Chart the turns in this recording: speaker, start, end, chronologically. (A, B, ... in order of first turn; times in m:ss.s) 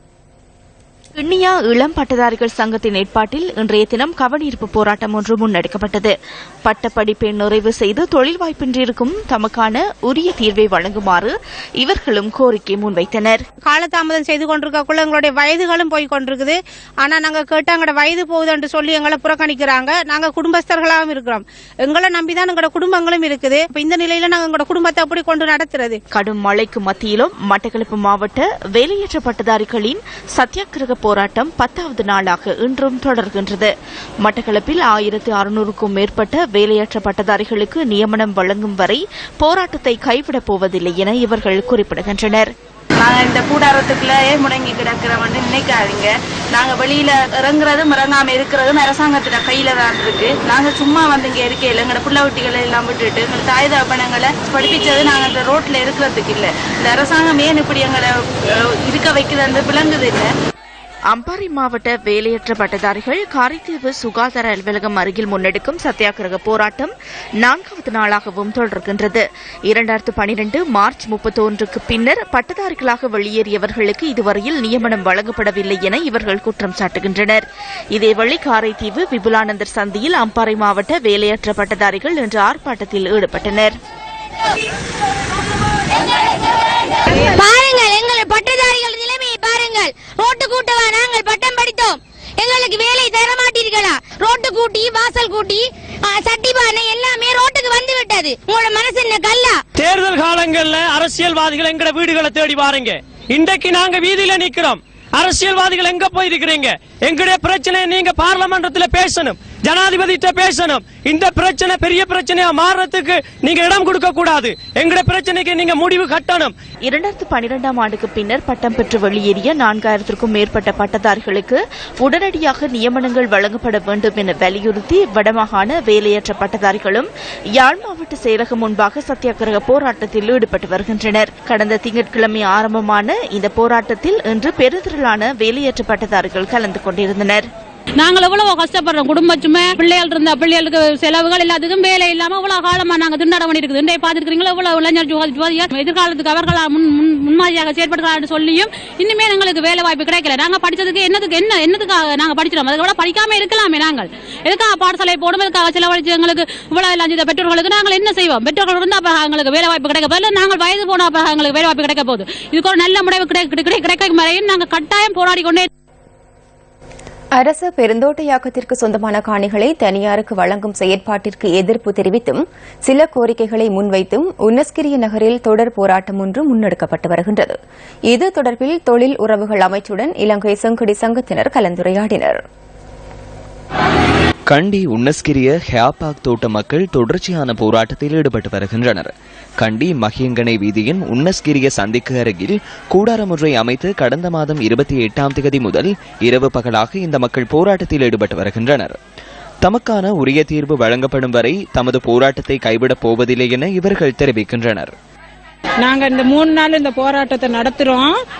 0:01.2-0:13.4 A
0:13.6-0:26.0 B
0:26.1-0:33.7 A
0:34.2-0:42.5 A
0:43.0-0:58.1 C
0:58.8-1:00.3 C
1:01.1-1:23.7 A
1:27.3-1:39.6 D
1:39.8-1:56.5 E
1:56.8-2:17.4 A
2:18.0-2:45.7 F
2:47.3-2:57.6 G
2:58.1-3:02.4 G
3:04.5-3:19.0 H
3:19.6-3:24.9 H
3:25.8-3:28.1 I